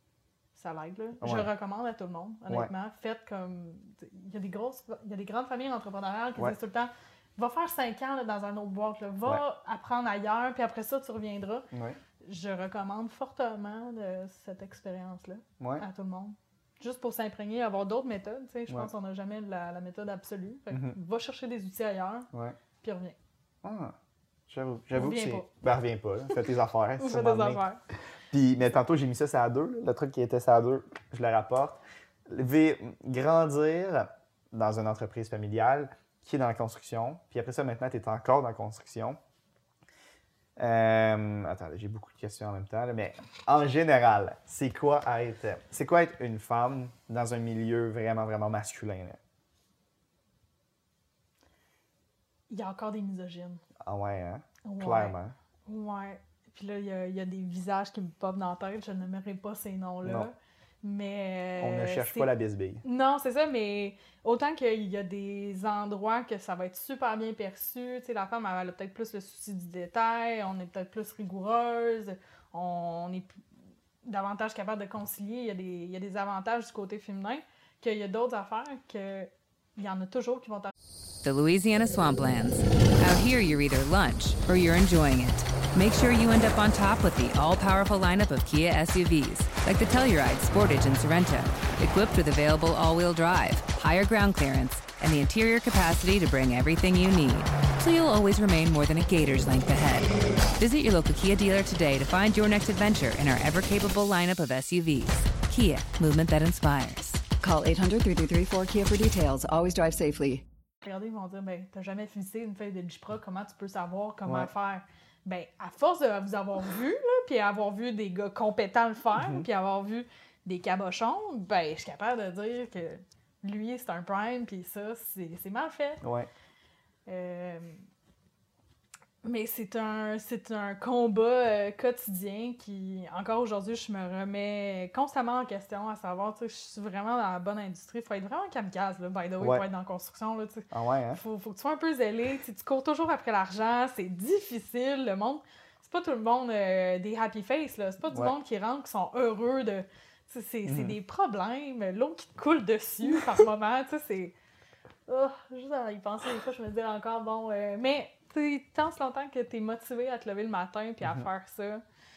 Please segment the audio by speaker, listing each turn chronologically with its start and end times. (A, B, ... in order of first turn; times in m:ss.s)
0:00.5-0:11.7 A
0:01.2-0:01.5 B
0:11.7-0:12.0 B
0:12.2-0:22.3 A
0:15.6-0:15.9 B
0:20.7-0:21.0 B
0:22.3-0:22.6 B
0:22.8-0:23.2 A
0:23.6-0:24.0 B
0:24.5-0:27.6 B
0:25.0-0:25.5 A
0:27.0-0:27.8 A
0:28.3-0:39.2 B
0:40.6-0:49.2 B
0:52.5-0:53.6 A
0:53.8-0:55.4 B
0:54.6-1:13.3 A
1:00.0-1:00.3 B
1:01.6-1:02.8 B
1:14.0-1:20.7 A
1:21.2-1:47.2 C
1:47.4-1:50.4 D
1:50.8-2:06.0 A
1:54.2-1:54.5 B
1:59.2-1:59.5 B
2:06.0-2:06.3 B
2:07.1-2:07.8 A
2:09.2-2:34.3 A
2:19.4-2:19.6 B
2:20.7-2:21.2 B
2:30.6-2:31.0 B
2:35.1-2:41.8 A